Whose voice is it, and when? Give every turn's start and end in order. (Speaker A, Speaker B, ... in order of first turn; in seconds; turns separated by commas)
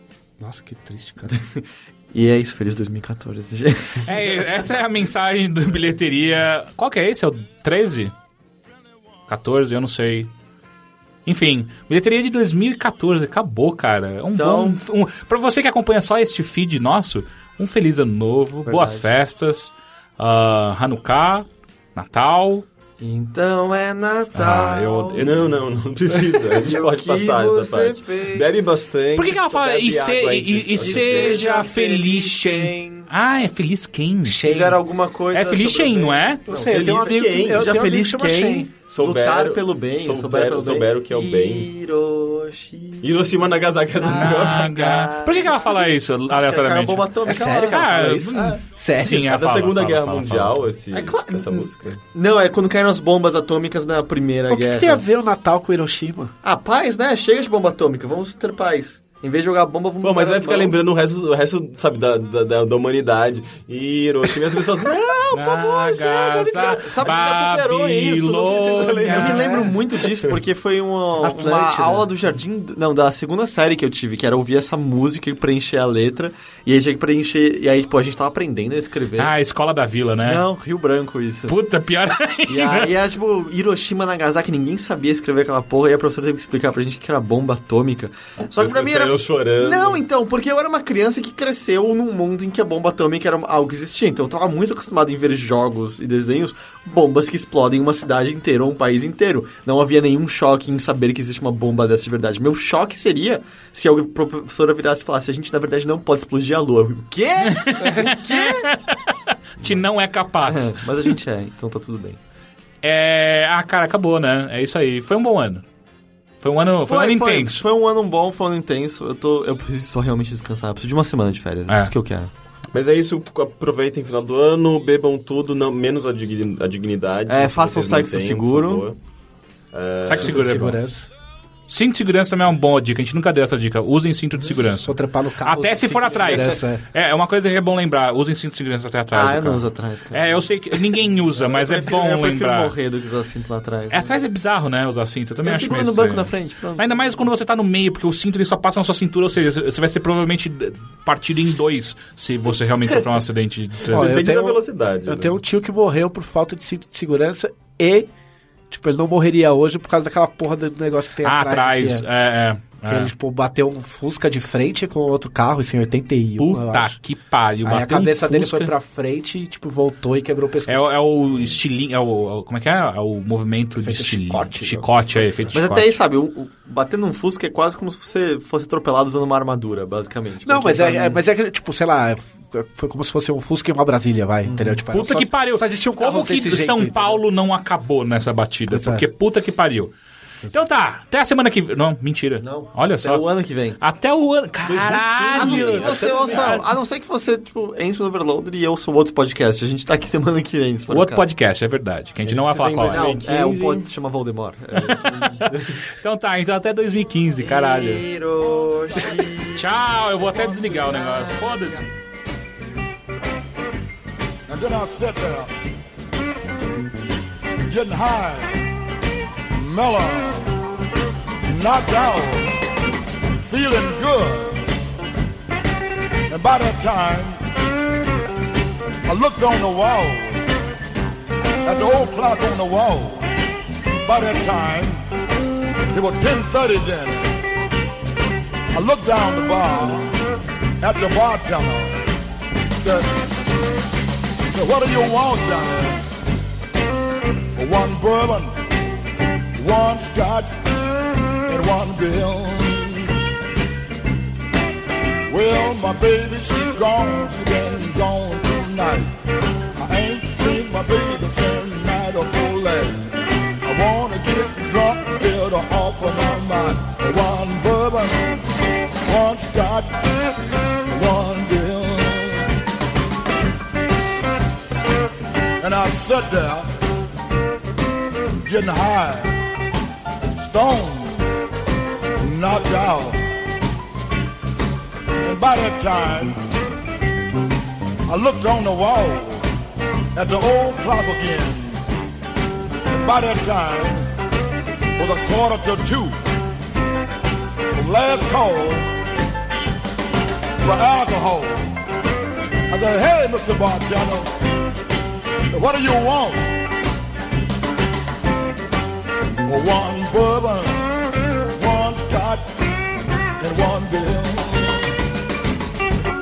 Speaker A: 0.4-1.4, Speaker B: 1.3-4.1, Speaker C: 4.0-8.1, Speaker C: 9.3-10.3, Speaker C: 11.2-22.6, Speaker B: 14.4-14.8, Speaker B: 18.6-19.1, Speaker B: 23.0-25.3, Speaker C: 24.3-25.4, Speaker D: 25.2-31.5, Speaker B: 26.3-28.5, Speaker C: 29.1-34.5, Speaker B: 30.8-33.1, Speaker A: 34.2-34.8, Speaker B: 34.4-43.1, Speaker C: 35.3-36.4, Speaker A: 36.5-38.7, Speaker D: 36.6-37.9, Speaker D: 38.9-41.7, Speaker D: 43.0-44.7, Speaker B: 44.0-48.6, Speaker C: 44.1-50.7, Speaker A: 47.2-49.3, Speaker D: 49.2-52.0, Speaker B: 50.9-55.0, Speaker A: 54.5-56.3, Speaker B: 56.4-60.8, Speaker D: 60.0-69.7, Speaker C: 65.3-69.6, Speaker B: 65.9-67.5, Speaker B: 69.0-79.3, Speaker A: 69.3-69.6, Speaker A: 71.2-72.1, Speaker C: 79.2-80.4, Speaker B: 80.2-81.5, Speaker C: 81.5-82.9, Speaker B: 82.5-108.7, Speaker D: 88.5-90.0, Speaker C: 107.4-111.1, Speaker B: 110.4-112.2, Speaker C: 112.8-115.6, Speaker C: 116.4-117.7, Speaker B: 116.8-122.3, Speaker D: 122.7-129.0, Speaker B: 127.3-128.9, Speaker D: 129.7-130.4, Speaker C: 130.0-130.8, Speaker A: 130.1-131.1, Speaker C: 131.7-142.7, Speaker A: 134.8-136.8, Speaker B: 136.1-136.6, Speaker B: 139.1-144.1, Speaker C: 143.9-154.2, Speaker B: 145.4-147.2, Speaker D: 153.8-155.4, Speaker A: 153.9-158.1, Speaker A: 158.7-162.0, Speaker C: 161.2-163.1, Speaker A: 162.8-167.0, Speaker C: 166.4-168.7, Speaker A: 167.6-171.6, Speaker C: 170.7-176.0, Speaker A: 173.8-175.5, Speaker B: 175.5-181.2, Speaker A: 180.4-187.2, Speaker B: 184.4-184.8, Speaker C: 184.9-189.9, Speaker A: 188.7-189.0, Speaker C: 190.5-193.2, Speaker B: 192.4-193.8, Speaker C: 193.8-196.7, Speaker D: 194.7-195.5, Speaker B: 194.7-201.2, Speaker A: 195.3-196.7, Speaker C: 200.9-203.1, Speaker B: 202.3-205.5, Speaker D: 202.3-203.8, Speaker A: 203.2-203.8, Speaker C: 204.7-208.0, Speaker B: 207.4-209.7, Speaker C: 209.5-211.9, Speaker B: 210.6-211.8, Speaker E: 214.5-215.5, Speaker E: 217.7-218.7, Speaker E: 219.5-220.5, Speaker E: 221.4-222.6, Speaker E: 223.4-224.6, Speaker E: 226.3-227.4, Speaker E: 229.1-230.4, Speaker E: 231.6-233.3, Speaker E: 234.0-235.0, Speaker E: 235.9-237.4, Speaker E: 238.7-240.1, Speaker E: 240.8-242.0, Speaker E: 242.8-243.3, Speaker E: 244.5-246.1, Speaker E: 247.6-248.5, Speaker E: 249.6-250.5, Speaker E: 251.5-253.2, Speaker E: 255.3-259.1, Speaker E: 259.8-268.4, Speaker E: 269.0-269.9, Speaker E: 270.9-272.5, Speaker E: 275.6-276.7, Speaker E: 278.4-279.4, Speaker E: 280.3-281.2, Speaker E: 282.2-283.2, Speaker E: 285.2-286.4, Speaker E: 288.1-289.5, Speaker E: 290.1-291.8, Speaker E: 292.9-294.1, Speaker E: 295.0-296.1, Speaker E: 297.7-298.9, Speaker E: 300.6-301.7, Speaker E: 302.7-304.3, Speaker E: 305.5-306.6, Speaker E: 309.4-310.9, Speaker E: 311.5-312.5, Speaker E: 313.4-314.9